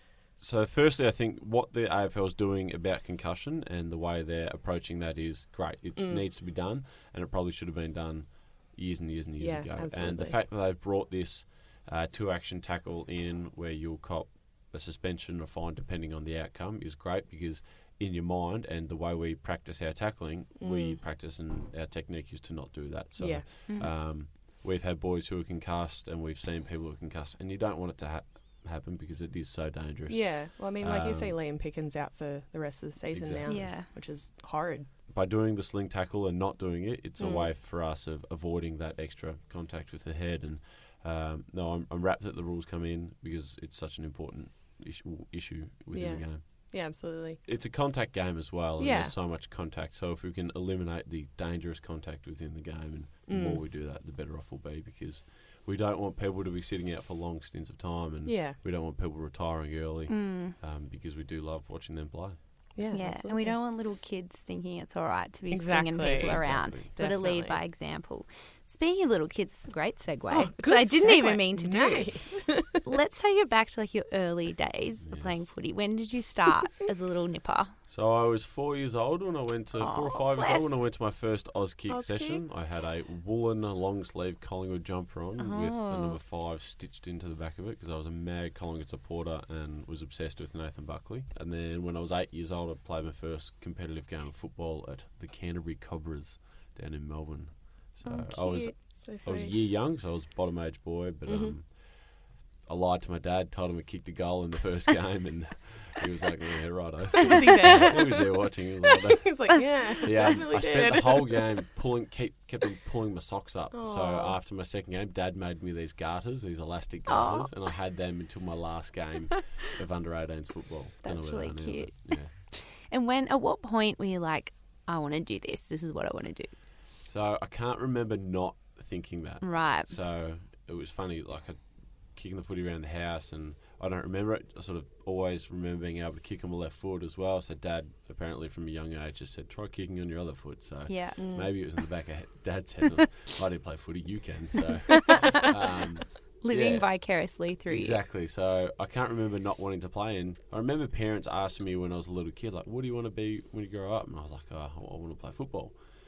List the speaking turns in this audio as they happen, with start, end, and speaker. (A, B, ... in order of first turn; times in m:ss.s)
0:00.4-0:31.4 A
0:06.0-0:06.2 B
0:09.4-0:10.4 B
0:20.6-0:21.0 B
0:23.2-0:23.4 B
0:23.7-0:23.9 C
0:30.1-0:34.9 B
0:33.1-0:33.7 A
0:33.4-0:33.9 C
0:35.1-0:46.8 A
0:37.2-0:37.5 B
0:45.9-0:47.4 B
0:47.4-1:02.4 A
0:48.8-0:49.1 B
0:53.3-0:53.6 B
0:58.2-0:58.6 B
1:00.1-1:00.5 C
1:02.7-1:03.6 B
1:02.9-1:12.1 C
1:05.5-1:07.6 B
1:06.2-1:06.9 A
1:10.3-1:12.9 B
1:12.8-1:17.7 C
1:15.0-1:15.5 A
1:17.9-2:02.3 A
1:19.8-1:20.8 C
1:21.9-1:22.4 B
1:25.4-1:26.2 C
1:38.0-1:38.8 C
1:38.7-1:39.5 B
1:41.2-1:41.5 B
1:47.2-1:48.3 B
1:48.9-1:51.4 B
1:53.7-1:54.4 B
1:57.1-1:57.5 C
2:01.0-2:06.5 C
2:07.1-2:26.9 A
2:09.4-2:09.9 C
2:20.9-2:21.2 C
2:21.2-2:21.5 B
2:25.0-2:25.4 C
2:26.4-2:28.0 C
2:27.7-2:35.8 A